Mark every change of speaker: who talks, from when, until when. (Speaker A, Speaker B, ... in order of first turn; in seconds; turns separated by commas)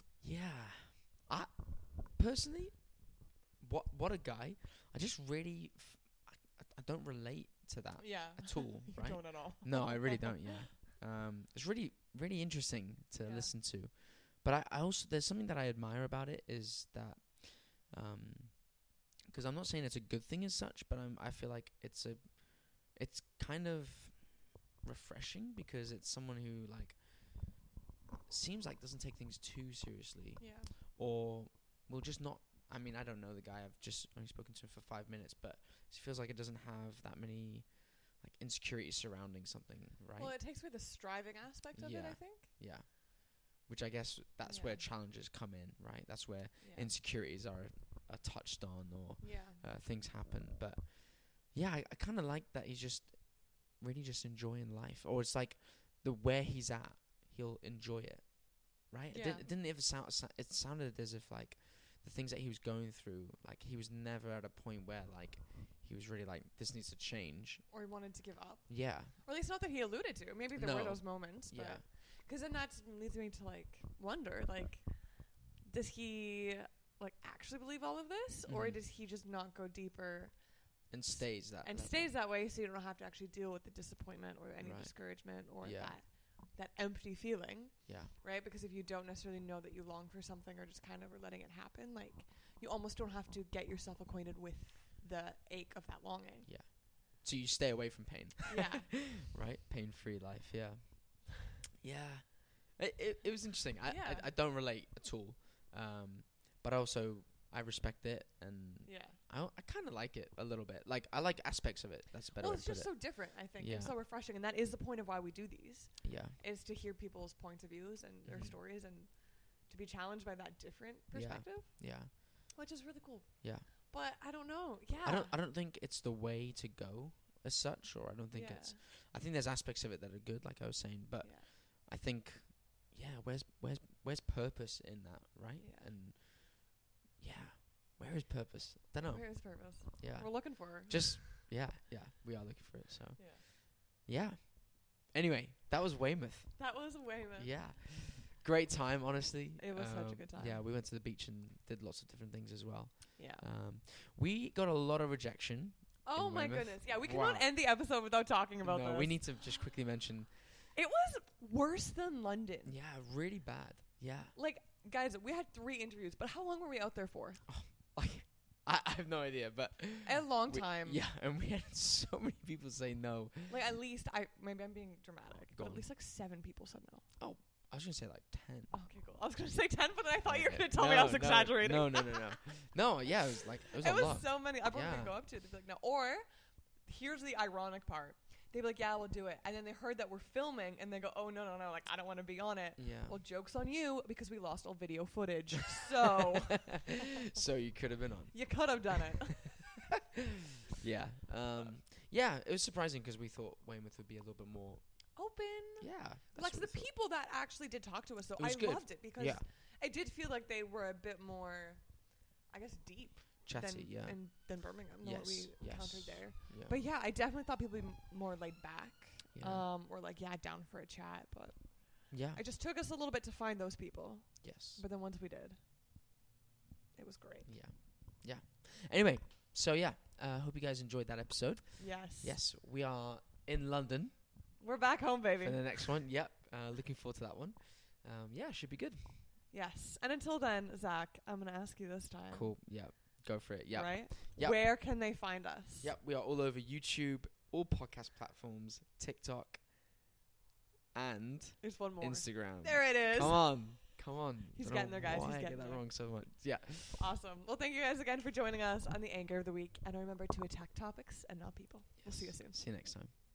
Speaker A: 0.2-27.6, Speaker B: 8.0-10.6, Speaker B: 13.2-13.5, Speaker A: 28.3-40.4, Speaker B: 30.4-30.7, Speaker B: 40.2-42.5, Speaker A: 41.7-67.7, Speaker B: 44.4-44.9, Speaker B: 46.6-46.9, Speaker B: 49.2-49.6, Speaker B: 59.1-59.5, Speaker B: 67.7-96.5, Speaker A: 68.7-69.2, Speaker A: 70.5-71.9, Speaker A: 78.5-78.8, Speaker A: 80.9-82.1, Speaker A: 84.6-86.0, Speaker A: 87.8-88.1, Speaker A: 96.4-113.9, Speaker B: 98.5-99.0, Speaker B: 103.8-104.3, Speaker B: 108.8-109.2, Speaker B: 112.3-125.4, Speaker A: 116.0-116.3, Speaker A: 118.2-118.6, Speaker A: 121.1-122.5, Speaker A: 123.4-123.7, Speaker A: 125.0-157.5, Speaker B: 128.3-128.8, Speaker B: 131.2-131.5, Speaker B: 135.6-135.9, Speaker B: 138.9-141.3, Speaker B: 143.2-143.4, Speaker B: 146.6-147.6, Speaker B: 149.6-150.6, Speaker B: 153.2-153.4, Speaker B: 156.0-159.2, Speaker A: 158.6-160.5, Speaker B: 160.7-162.7, Speaker A: 162.6-164.3, Speaker B: 164.3-167.4, Speaker A: 167.5-173.6, Speaker B: 170.0-171.0, Speaker B: 173.5-177.1, Speaker A: 175.5-175.8, Speaker A: 177.2-178.7, Speaker B: 178.7-182.3, Speaker A: 180.2-185.2, Speaker B: 183.7-186.2, Speaker B: 186.8-196.9, Speaker A: 192.8-193.2, Speaker A: 196.7-199.6, Speaker B: 198.3-199.6, Speaker A: 200.8-205.2, Speaker B: 205.2-225.6, Speaker A: 205.8-206.9, Speaker A: 208.4-209.4, Speaker A: 213.4-216.8, Speaker A: 219.3-219.7, Speaker A: 222.1-222.4, Speaker A: 224.4-224.8, Speaker B: 226.9-227.5, Speaker A: 227.4-234.5, Speaker B: 231.8-232.4, Speaker B: 234.6-235.9, Speaker A: 235.4-239.2, Speaker B: 239.5-242.5, Speaker A: 242.3-244.8, Speaker B: 243.7-245.9, Speaker A: 245.8-249.9, Speaker A: 250.9-257.0, Speaker B: 251.6-253.8, Speaker B: 254.5-255.8, Speaker B: 256.9-262.6, Speaker A: 262.0-263.1